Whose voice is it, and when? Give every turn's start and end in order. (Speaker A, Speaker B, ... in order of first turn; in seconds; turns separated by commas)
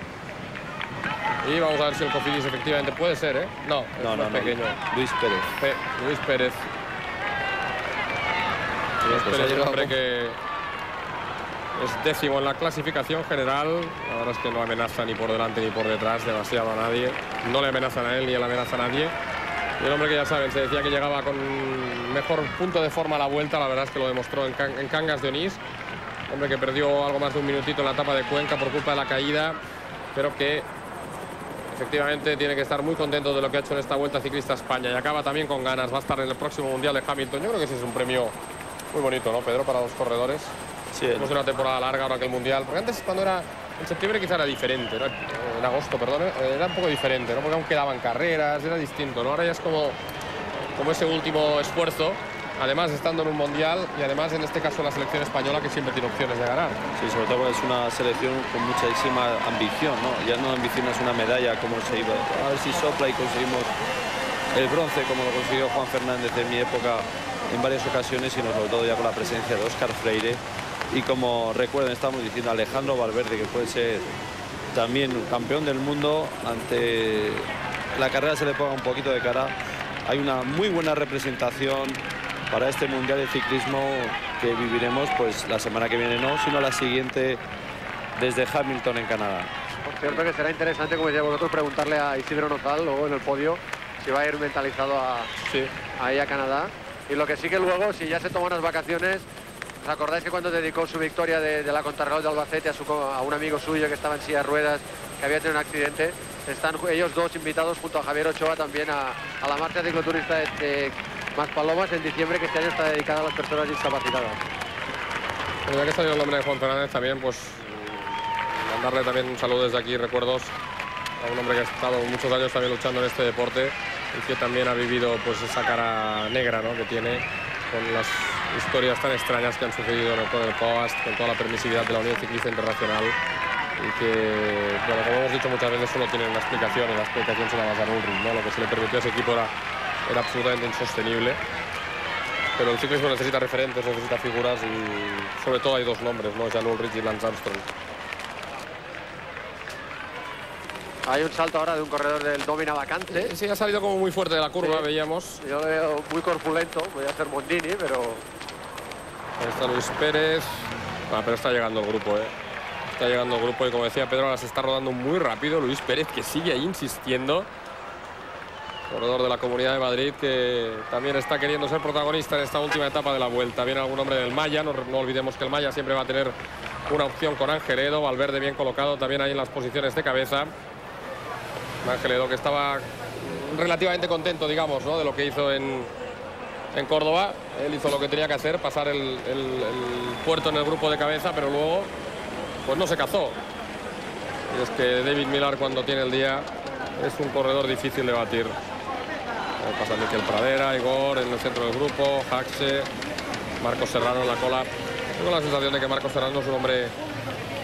Speaker A: 1.4-4.8, Speaker B: 4.0-5.5, Speaker A: 5.6-6.6, Speaker A: 9.0-10.4, Speaker B: 9.1-10.0, Speaker A: 11.8-19.1, Speaker A: 19.8-25.6, Speaker A: 26.3-29.6, Speaker A: 30.1-30.7, Speaker A: 31.7-38.3, Speaker A: 38.9-40.5, Speaker B: 40.9-41.3, Speaker A: 41.2-50.0, Speaker A: 50.8-56.8, Speaker B: 57.0-63.7, Speaker B: 64.5-74.1, Speaker B: 74.7-79.5, Speaker B: 80.1-87.4, Speaker B: 88.2-89.5, Speaker C: 89.9-95.3, Speaker A: 95.4-95.7, Speaker C: 96.0-99.3, Speaker C: 99.8-114.4, Speaker A: 115.7-117.7, Speaker A: 118.6-120.5, Speaker A: 121.2-133.2, Speaker A: 133.8-139.5, Speaker A: 140.1-141.4, Speaker A: 142.6-147.7, Speaker C: 151.1-153.3, Speaker A: 153.1-155.4, Speaker C: 154.6-154.9, Speaker C: 155.4-158.2, Speaker A: 159.4-162.3, Speaker A: 162.9-167.5, Speaker A: 168.9-176.3, Speaker A: 176.9-180.5, Speaker A: 181.8-185.9, Speaker A: 186.7-191.9, Speaker A: 192.7-193.4, Speaker A: 194.5-196.5, Speaker A: 197.0-198.6, Speaker A: 199.6-202.9, Speaker A: 203.6-206.9